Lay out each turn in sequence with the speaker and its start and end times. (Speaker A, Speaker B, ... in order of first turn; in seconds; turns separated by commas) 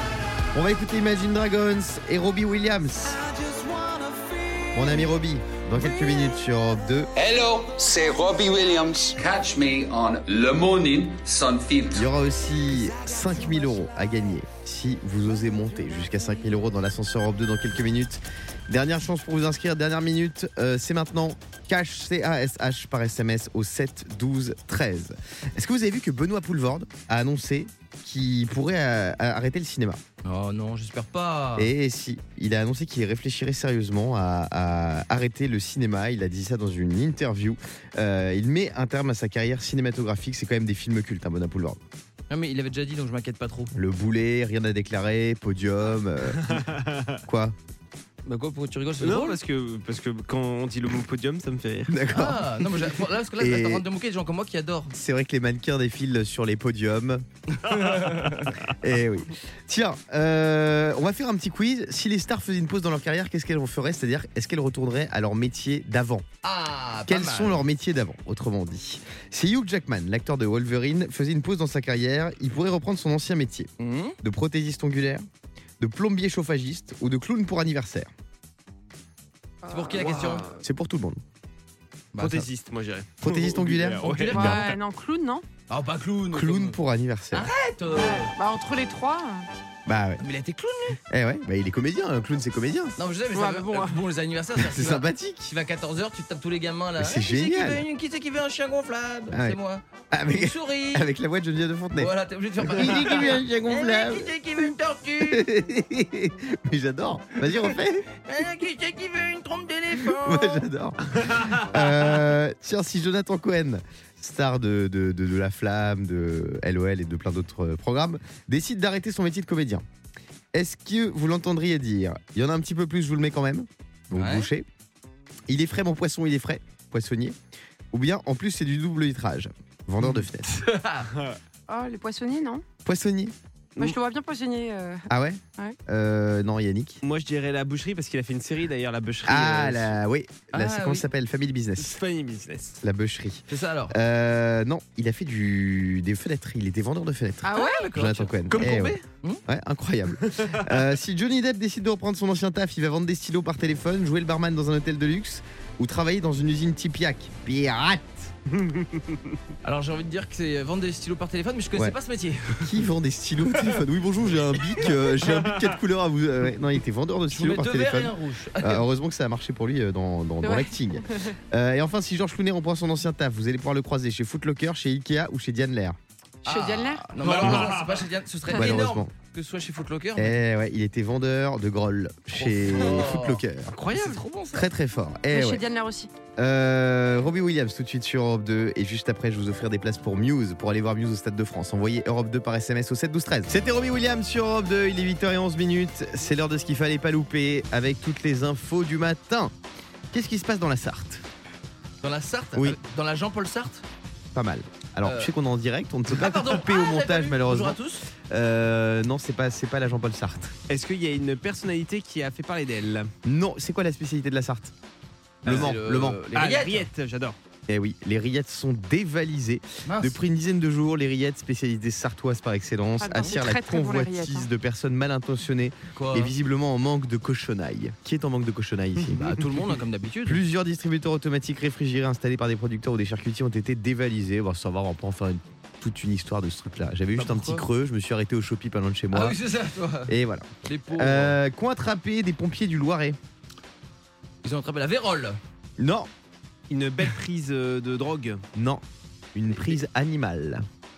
Speaker A: 0.5-3.2, Speaker A: 4.7-7.1, Speaker B: 7.2-12.1, Speaker A: 11.9-30.0, Speaker C: 30.2-31.7, Speaker A: 31.6-41.8, Speaker C: 42.3-43.7, Speaker A: 43.7-46.6, Speaker D: 46.4-47.2, Speaker A: 47.3-47.6, Speaker C: 48.3-49.4, Speaker D: 49.0-51.9, Speaker A: 51.9-52.7, Speaker C: 52.1-54.9, Speaker A: 53.4-53.8, Speaker A: 54.9-57.2, Speaker C: 57.7-58.5, Speaker A: 58.8-66.3, Speaker C: 66.4-67.6, Speaker A: 67.1-73.7, Speaker C: 73.8-74.2, Speaker A: 74.2-75.3, Speaker A: 75.8-78.1, Speaker E: 79.7-79.9, Speaker C: 79.7-80.6, Speaker D: 80.0-80.5, Speaker A: 80.6-81.2, Speaker C: 82.1-82.5, Speaker D: 82.2-84.7, Speaker A: 83.2-84.1, Speaker C: 84.0-84.8, Speaker E: 84.3-85.5, Speaker C: 85.7-86.8, Speaker A: 86.3-87.5, Speaker C: 87.3-88.3, Speaker E: 88.0-89.5, Speaker A: 89.9-90.2, Speaker C: 90.2-91.0, Speaker A: 91.1-93.0, Speaker C: 93.0-101.1, Speaker E: 93.3-94.0, Speaker A: 94.6-95.5, Speaker A: 97.0-97.8, Speaker A: 99.3-99.6, Speaker A: 100.1-104.3, Speaker C: 102.0-105.5, Speaker A: 105.2-108.1, Speaker C: 108.3-110.7, Speaker A: 110.2-119.8, Speaker A: 120.5-124.7, Speaker C: 124.1-124.5, Speaker A: 125.5-127.4, Speaker A: 127.9-130.5, Speaker C: 130.5-131.1, Speaker E: 131.7-132.6, Speaker A: 132.8-133.3, Speaker E: 133.8-135.8, Speaker A: 135.1-137.0, Speaker D: 137.0-139.9, Speaker A: 139.2-142.0, Speaker C: 140.5-141.0, Speaker D: 141.8-142.8, Speaker A: 142.8-158.3, Speaker C: 143.5-144.0, Speaker E: 147.4-147.9, Speaker C: 147.5-148.7, Speaker D: 148.5-149.0, Speaker D: 158.6-159.2, Speaker C: 159.6-162.9, Speaker A: 162.5-176.0, Speaker C: 167.3-168.9, Speaker E: 170.4-171.4, Speaker C: 176.4-180.4, Speaker E: 176.5-177.1, Speaker D: 177.2-178.0, Speaker A: 177.4-177.8, Speaker E: 178.5-178.8, Speaker A: 178.6-179.1, Speaker A: 180.2-183.8, Speaker C: 182.3-184.7, Speaker D: 183.8-184.3, Speaker A: 184.5-185.6, Speaker E: 185.3-186.1, Speaker A: 186.4-199.5, Speaker A: 200.1-201.2, Speaker C: 202.0-203.8, Speaker A: 204.3-207.8, Speaker C: 205.0-205.3, Speaker C: 206.1-208.0, Speaker A: 208.3-210.5, Speaker D: 210.7-213.1, Speaker A: 213.2-214.7, Speaker C: 215.4-216.9, Speaker A: 215.4-216.2, Speaker D: 215.5-215.8, Speaker D: 216.3-217.4, Speaker A: 217.7-229.4, Speaker C: 219.9-220.2, Speaker E: 223.0-224.5, Speaker C: 226.0-226.3, Speaker C: 229.1-230.4, Speaker A: 230.2-239.4, Speaker C: 237.2-237.7, Speaker C: 239.1-240.1, Speaker A: 240.1-243.2, Speaker C: 240.7-241.4, Speaker C: 244.4-245.4, Speaker A: 245.8-246.1, Speaker D: 246.7-248.4, Speaker A: 248.5-248.8, Speaker A: 249.3-250.7